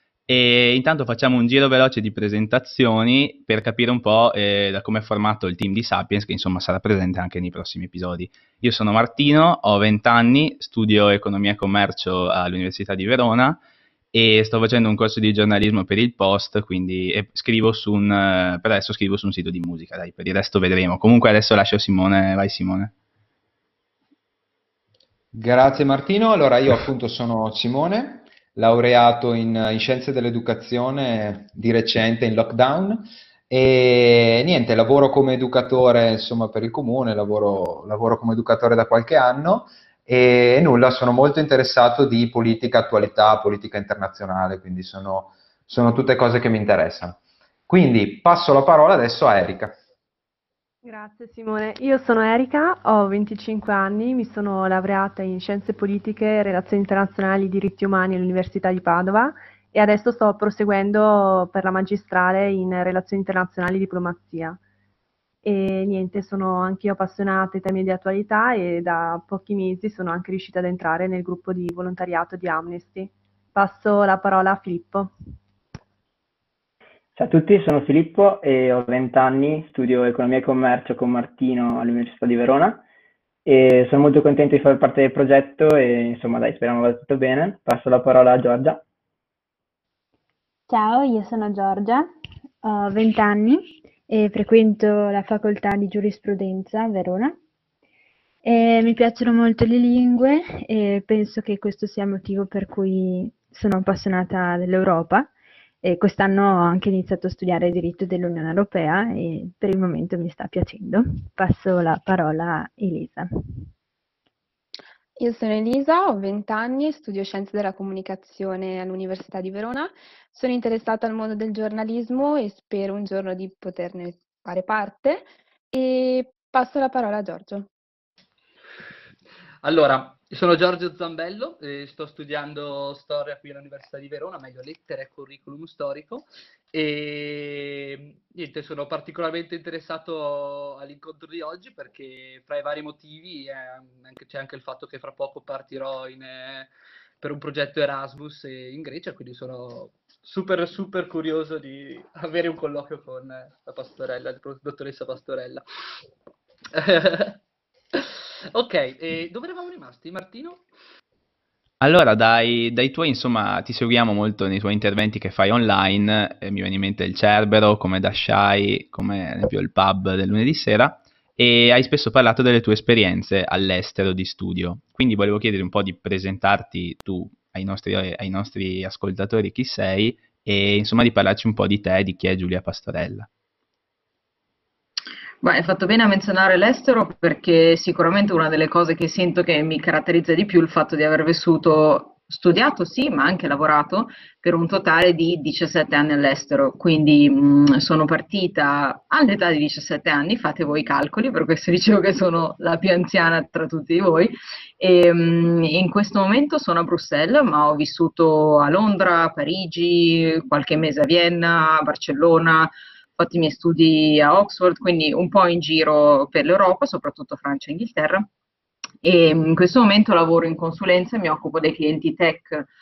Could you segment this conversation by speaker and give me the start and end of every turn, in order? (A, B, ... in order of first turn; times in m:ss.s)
0:00.3-0:13.6 A
0:14.1-0:22.9 A
0:25.3-0:49.8 B
0:50.8-1:04.6 C
1:05.4-1:15.1 C
1:17.2-1:22.8 D
1:23.4-1:28.8 D
1:30.7-1:32.1 E
1:32.6-1:37.4 E
1:38.4-1:45.3 E
1:45.8-1:53.3 E
1:55.2-2:07.7 F
2:09.6-2:35.6 G
2:36.7-2:37.4 G
2:37.9-2:40.6 G
2:41.8-3:03.3 A
3:05.4-3:38.3 H
3:39.0-3:42.7 H